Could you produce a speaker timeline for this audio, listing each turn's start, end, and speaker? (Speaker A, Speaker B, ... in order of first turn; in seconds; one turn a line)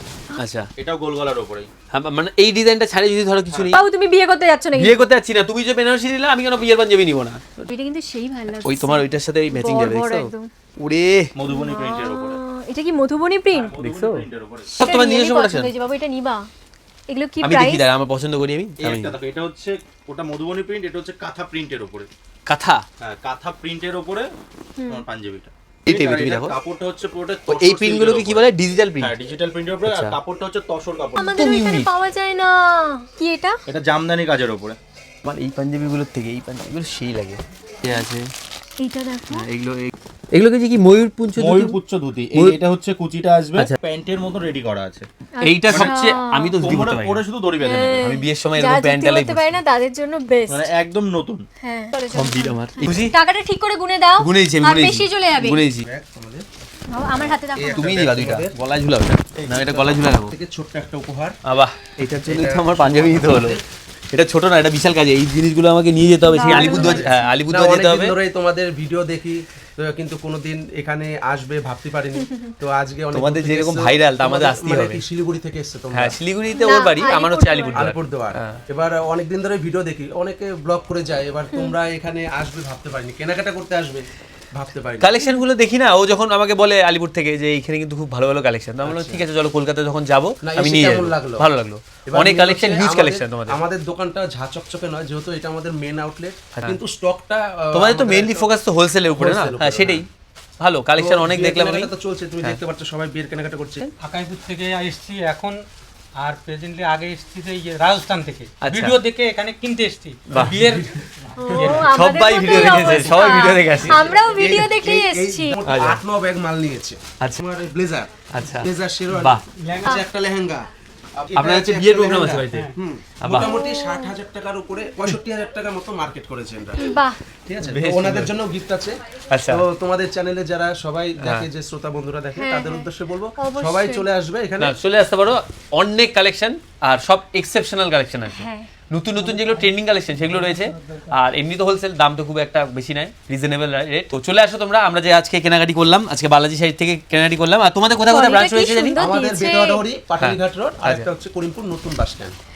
Speaker A: 0.3-0.7
Speaker B: 0.8-1.7
Speaker A: 1.9-3.8
Speaker B: 3.5-3.8
Speaker C: 3.7-5.1
Speaker A: 4.8-7.7
Speaker C: 7.7-10.5
Speaker A: 8.6-11.3
Speaker B: 11.3-12.4
Speaker C: 11.5-13.7
Speaker B: 13.5-14.7
Speaker A: 13.8-15.7
Speaker C: 14.7-16.5
Speaker C: 17.1-17.8
Speaker A: 17.4-19.2
Speaker B: 18.8-22.1
Speaker A: 22.5-22.8
Speaker B: 23.0-24.3
Speaker C: 24.8-25.0
Speaker B: 24.9-28.4
Speaker A: 25.9-26.6
Speaker A: 27.5-29.1
Speaker B: 29.0-31.3
Speaker A: 29.9-30.1
Speaker C: 31.2-33.6
Speaker A: 31.3-31.9
Speaker B: 33.7-34.8
Speaker A: 35.2-38.3
Speaker C: 38.8-39.5
Speaker A: 39.3-41.8
Speaker B: 41.3-45.1
Speaker C: 45.4-46.5
Speaker A: 45.4-47.2
Speaker B: 45.7-48.0
Speaker C: 47.6-50.7
Speaker A: 48.0-49.5
Speaker B: 50.5-51.5
Speaker C: 51.6-55.6
Speaker A: 52.1-53.1
Speaker A: 54.2-55.8
Speaker D: 55.8-56.4
Speaker C: 56.9-58.0
Speaker D: 57.5-58.5
Speaker A: 57.7-60.4
Speaker D: 59.4-61.4
Speaker A: 61.5-63.6
Speaker D: 62.0-63.6
Speaker A: 64.1-68.2
Speaker C: 66.3-67.2
Speaker D: 66.4-76.2
Speaker C: 72.2-72.5
Speaker A: 73.1-75.0
Speaker A: 75.9-78.6
Speaker C: 76.5-77.9
Speaker D: 77.7-85.2
Speaker A: 85.0-93.6
Speaker D: 88.8-89.2
Speaker D: 90.4-91.5
Speaker D: 92.0-98.5
Speaker A: 96.5-96.8
Speaker A: 97.7-100.1
Speaker D: 99.1-100.0
Speaker A: 100.6-102.6
Speaker D: 101.0-103.9
Speaker E: 104.0-105.6
Speaker E: 106.2-111.9
Speaker A: 108.6-109.0
Speaker A: 110.3-110.7
Speaker D: 110.3-110.8
Speaker C: 111.3-115.6
Speaker A: 111.7-114.1
Speaker D: 113.3-126.9
Speaker A: 115.6-116.0
Speaker A: 118.3-119.4
Speaker E: 119.6-120.0
Speaker A: 121.3-122.7
Speaker A: 123.2-123.5
Speaker C: 123.4-124.1
Speaker C: 126.8-127.2
Speaker D: 127.5-134.7
Speaker A: 127.6-128.3
Speaker A: 129.3-129.6
Speaker A: 131.2-131.5
Speaker C: 132.3-134.1
Speaker A: 134.6-149.0
Speaker C: 138.3-138.7
Speaker C: 148.1-149.8
Speaker D: 148.9-152.3
Speaker A: 150.2-151.1